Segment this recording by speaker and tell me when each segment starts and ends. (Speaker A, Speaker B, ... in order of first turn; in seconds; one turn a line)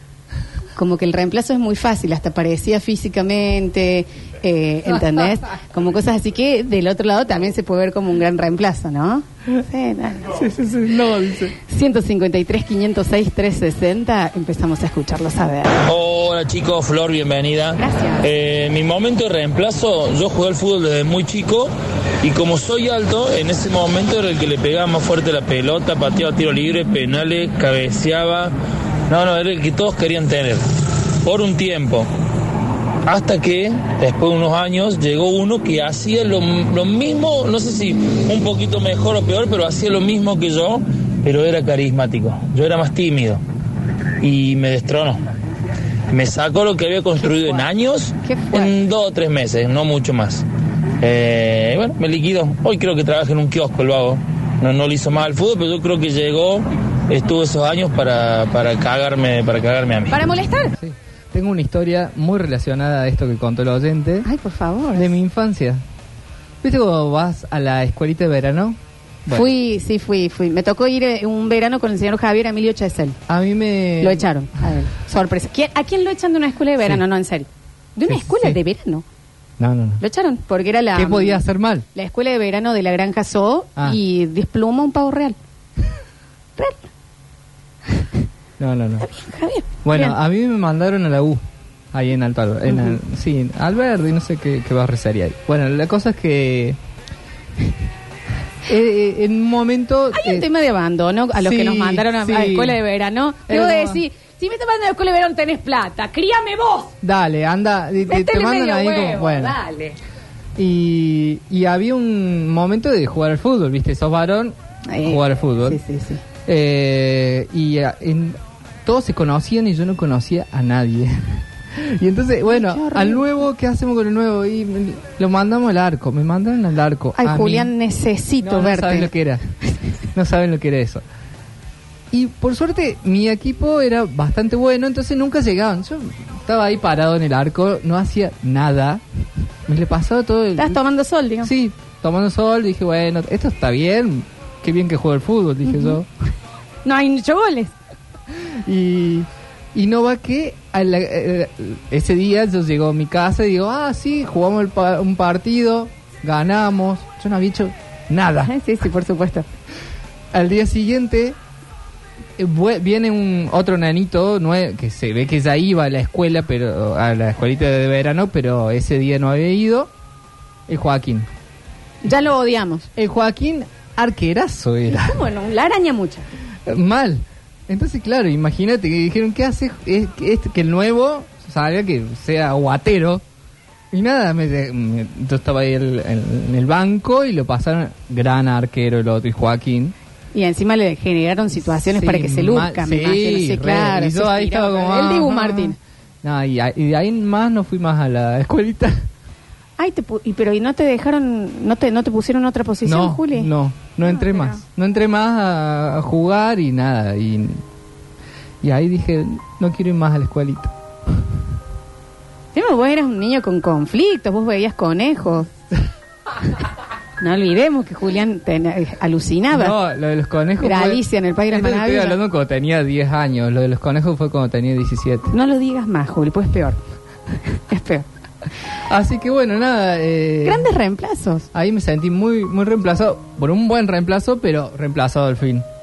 Speaker A: 0.7-10.3
Speaker B: 10.3-11.5
Speaker A: 11.7-15.8
Speaker C: 15.8-21.7
Speaker A: 17.8-18.2
Speaker C: 22.2-28.5
Speaker C: 29.1-30.6
Speaker C: 31.2-32.1
Speaker C: 33.0-43.4
Speaker C: 44.2-45.2
Speaker C: 46.1-50.4
Speaker A: 47.2-47.6
Speaker A: 48.2-48.7
Speaker C: 51.0-60.2
Speaker A: 60.1-60.7
Speaker B: 60.8-64.3
Speaker A: 64.2-65.1
Speaker B: 64.9-65.8
Speaker B: 66.6-69.5
Speaker A: 69.3-73.2
Speaker B: 73.3-74.2
Speaker A: 74.0-79.0
Speaker B: 76.8-77.0
Speaker B: 78.1-78.6
Speaker B: 79.6-80.0
Speaker A: 80.0-85.4
Speaker B: 80.9-81.8
Speaker B: 88.6-89.1
Speaker A: 89.0-90.2
Speaker B: 89.8-96.8
Speaker A: 92.7-92.9
Speaker B: 98.7-100.5
Speaker A: 100.1-106.9
Speaker B: 101.4-102.8
Speaker B: 103.5-104.0
Speaker B: 107.0-109.6
Speaker A: 108.1-110.0
Speaker B: 110.6-115.8
Speaker A: 114.9-116.2
Speaker B: 116.5-127.7
Speaker A: 122.5-123.3
Speaker A: 127.2-129.1
Speaker B: 128.4-129.4
Speaker B: 130.1-131.0
Speaker B: 132.1-139.0
Speaker B: 139.7-140.8
Speaker A: 140.6-141.5
Speaker B: 141.4-146.1
Speaker A: 145.7-146.0
Speaker A: 146.8-147.8
Speaker B: 148.4-158.5
Speaker A: 158.4-159.4
Speaker B: 160.3-161.4
Speaker B: 162.4-169.9
Speaker B: 170.7-171.3
Speaker A: 172.0-172.9
Speaker B: 172.9-175.2
Speaker A: 174.9-176.3
Speaker B: 176.7-183.2
Speaker B: 183.9-189.9
Speaker A: 190.3-195.8
Speaker B: 191.9-199.1
Speaker A: 199.8-203.5
Speaker B: 202.8-207.6
Speaker A: 204.0-204.6
Speaker B: 208.6-211.2
Speaker A: 212.5-215.5
Speaker A: 217.2-219.7
Speaker B: 219.5-225.3
Speaker A: 220.6-222.2
Speaker A: 225.3-226.8
Speaker A: 227.5-228.1
Speaker B: 228.9-230.7
Speaker A: 230.4-231.5
Speaker B: 231.5-235.7